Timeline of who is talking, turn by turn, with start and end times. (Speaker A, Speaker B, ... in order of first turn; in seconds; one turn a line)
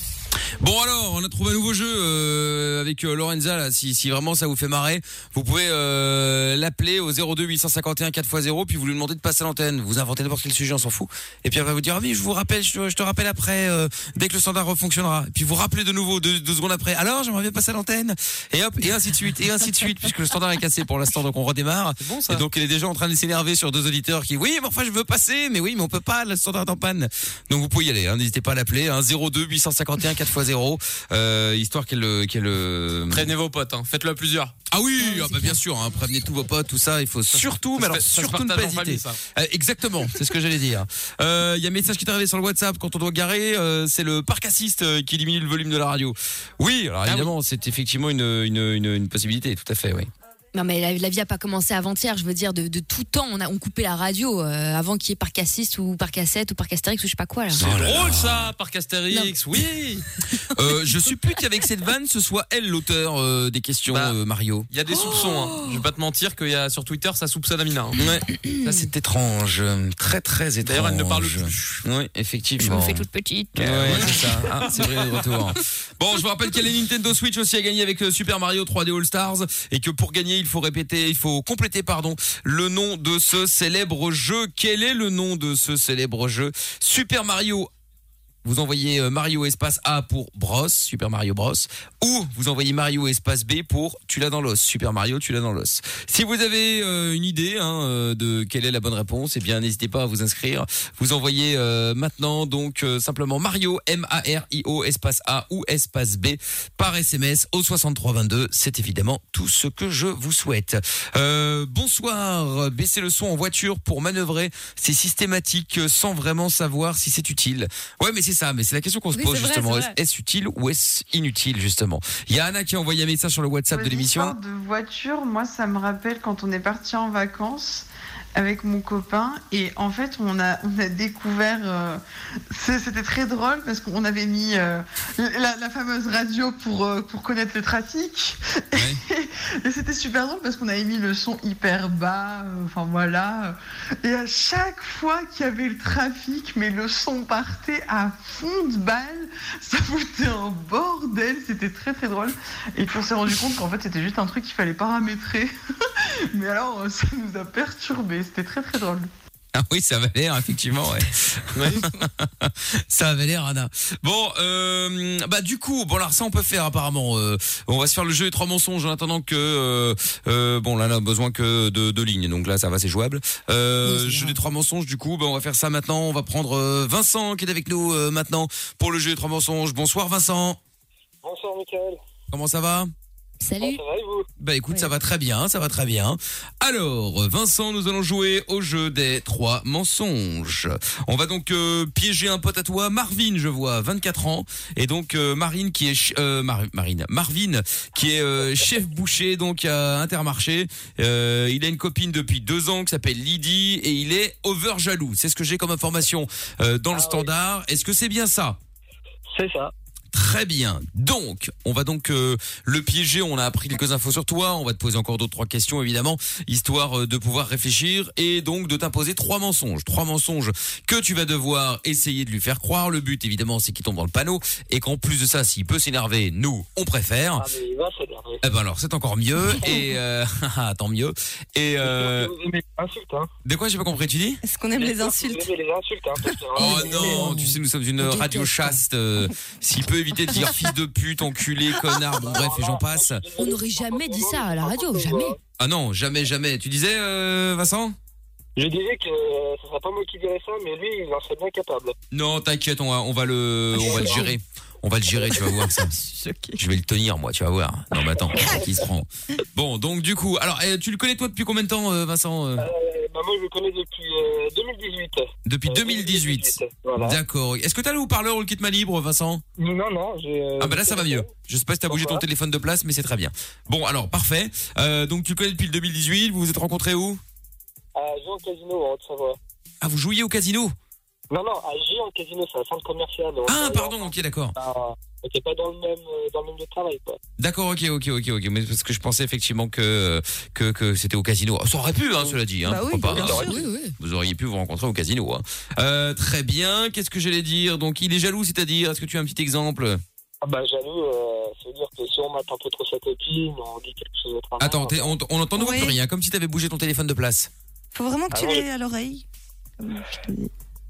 Speaker A: 0.6-33.3
Speaker B: 22.0-22.4
Speaker B: 33.1-34.5
Speaker A: 34.7-50.1
Speaker C: 35.2-35.5
Speaker B: 37.7-39.2
Speaker B: 47.0-47.3
Speaker C: 50.5-57.6
Speaker A: 57.5-58.5
Speaker B: 57.5-60.0
Speaker A: 60.5-64.7
Speaker B: 63.9-64.2
Speaker B: 64.7-68.0
Speaker C: 64.9-65.8
Speaker A: 68.0-87.7
Speaker B: 70.6-71.8
Speaker C: 72.6-74.2
Speaker B: 73.6-74.3
Speaker A: 88.4-124.3
Speaker C: 119.1-120.0
Speaker D: 123.7-155.5
Speaker A: 138.7-139.0
Speaker D: 156.0-159.1
Speaker A: 159.5-180.6
Speaker B: 161.5-161.9
Speaker C: 173.8-174.4
Speaker E: 181.2-182.0
Speaker A: 182.3-182.9
Speaker C: 183.4-183.8
Speaker E: 183.6-184.3
Speaker A: 184.4-208.6
Speaker E: 206.9-207.3
Speaker E: 209.3-209.7
Speaker A: 210.1-227.5
Speaker E: 227.4-228.4
Speaker A: 228.4-232.3
Speaker E: 231.8-233.3
Speaker A: 233.4-234.4
Speaker F: 234.4-235.5
Speaker E: 234.8-237.2
Speaker A: 236.5-243.2
Speaker C: 236.6-238.8
Speaker E: 242.2-245.4
Speaker C: 243.4-245.3
Speaker A: 245.6-247.9
Speaker E: 248.6-251.9
Speaker A: 252.1-255.9
Speaker F: 253.8-254.3
Speaker E: 253.8-254.2
Speaker F: 255.4-256.6
Speaker A: 256.6-262.7
Speaker E: 262.6-267.2
Speaker A: 265.4-269.4
Speaker E: 269.6-271.3
Speaker A: 270.6-277.2
Speaker E: 271.9-272.2
Speaker E: 277.9-279.4
Speaker A: 279.8-280.7
Speaker E: 281.3-287.2
Speaker A: 283.4-284.5
Speaker A: 287.4-300.0
Speaker F: 292.6-293.6
Speaker C: 293.1-293.9
Speaker E: 300.4-305.2
Speaker A: 304.6-307.5
Speaker F: 305.6-305.9
Speaker F: 307.9-309.2
Speaker E: 308.3-308.7
Speaker F: 309.8-310.5